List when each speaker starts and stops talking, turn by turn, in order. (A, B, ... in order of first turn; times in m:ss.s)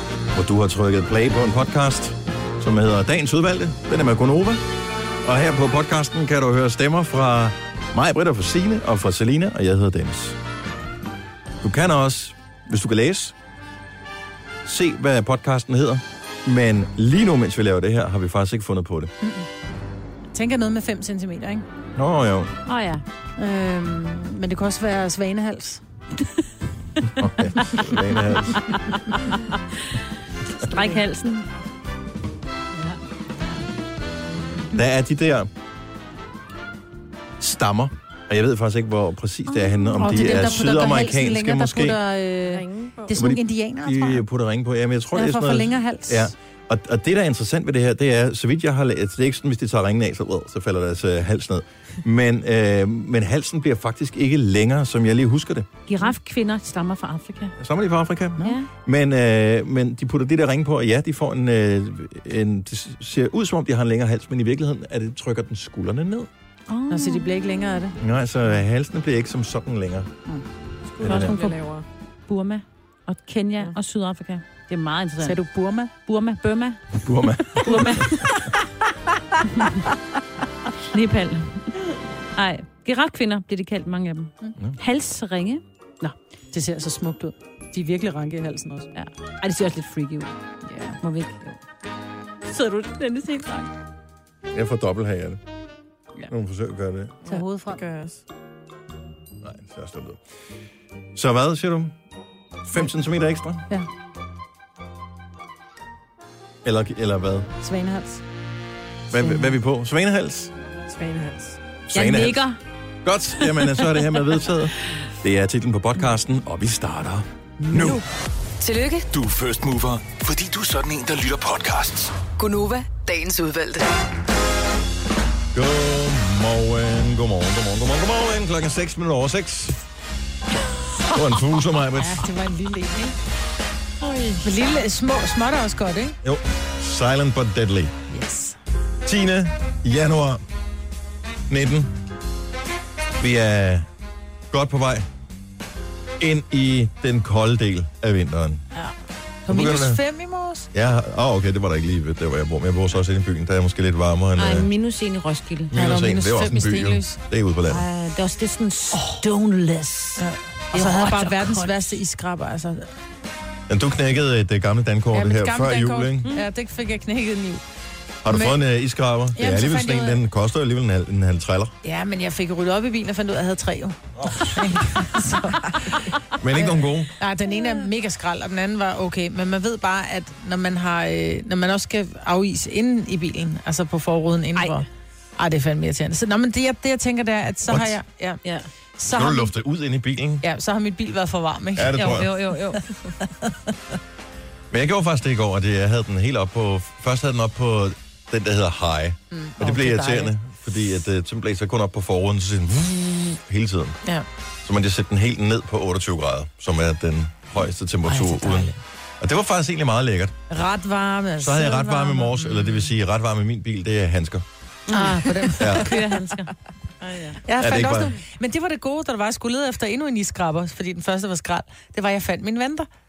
0:00.3-0:04.6 A
0:05.2-0:10.4 A
0:11.6-0:13.4 A
0:14.6-0:19.1 A
0:19.2-0:19.5 B
0:20.3-0:21.6 B
0:22.0-0:22.5 A
0:22.7-0:23.0 C
0:23.4-0:25.8 B
0:27.2-0:28.6 A
0:28.6-0:29.5 C
0:30.6-0:31.4 C
0:34.7-0:35.5 A
0:37.4-0:42.0 A
0:40.0-0:44.2 B
0:42.4-0:43.2 D
0:43.1-0:55.7 A
0:45.1-0:46.3 B
0:55.9-0:57.5 C
0:57.6-1:06.3 A
0:58.4-0:58.7 C
1:06.7-1:07.4 C
1:06.9-1:08.0 B
1:08.0-1:10.1 A
1:11.0-1:11.8 D
1:11.0-1:11.6 B
1:11.0-1:11.6 C
1:11.0-1:11.3 A
1:12.3-1:15.4 C
1:15.2-1:15.9 B
1:16.1-1:17.0 C
1:17.0-1:18.2 A
1:17.6-1:18.0 B
1:17.6-1:18.1 C
1:20.9-1:21.7 C
1:22.4-1:26.2 C
1:26.5-1:28.9 B
1:29.0-1:30.3 C
1:30.7-1:31.0 B
1:31.0-1:31.6 C
1:32.5-1:33.7 C
1:34.5-1:35.4 A
1:36.3-1:37.1 A
1:37.3-1:37.8 B
1:37.3-1:38.2 D
1:39.4-1:40.2 A
1:41.2-1:42.0 A
1:42.6-1:43.7 A
1:46.6-1:47.5 A
1:47.6-1:48.2 B
1:49.1-1:50.5 A
1:51.0-1:51.4 B
1:51.9-1:52.4 A
1:51.9-1:52.6 C
1:53.0-1:58.0 A
1:53.4-1:54.0 C
1:58.6-1:59.1 E
1:59.1-2:02.2 F
2:02.4-2:03.9 E
2:05.5-2:09.8 A
2:11.1-2:12.2 A
2:11.9-2:13.1 B
2:14.1-2:14.4 D
2:14.4-2:16.2 B
2:16.2-2:17.9 A
2:18.1-2:18.6 B
2:19.0-2:20.4 A
2:21.5-2:21.9 A
2:23.2-2:23.9 A
2:24.5-2:25.1 A
2:26.2-2:28.6 A
2:29.5-2:30.7 B
2:29.5-2:30.0 A
2:30.7-2:34.7 A
2:34.4-2:35.9 C
2:35.7-2:37.8 A
2:35.8-2:37.2 B
2:37.7-2:41.8 C
2:40.2-2:42.9 B
2:43.7-2:46.3 A
2:45.1-2:47.6 B
2:48.2-2:51.8 A
2:48.3-2:48.6 B
2:49.3-2:50.2 B
2:51.8-3:04.9 B
2:56.4-2:57.1 A
3:05.4-3:08.4 B
3:07.7-3:08.0 A
3:09.0-3:09.5 B
3:09.1-3:10.4 A
3:10.4-3:12.1 B
3:11.8-3:12.3 A
3:12.0-3:13.1 C
3:14.7-3:24.0 A
3:19.3-3:20.3 B
3:24.6-3:30.3 A
3:28.1-3:28.7 B
3:30.5-3:32.9 B
3:31.4-3:34.4 A
3:34.9-3:37.4 C
3:34.9-3:36.0 B
3:35.6-3:35.9 A
3:37.4-3:42.9 B
3:37.6-3:38.2 A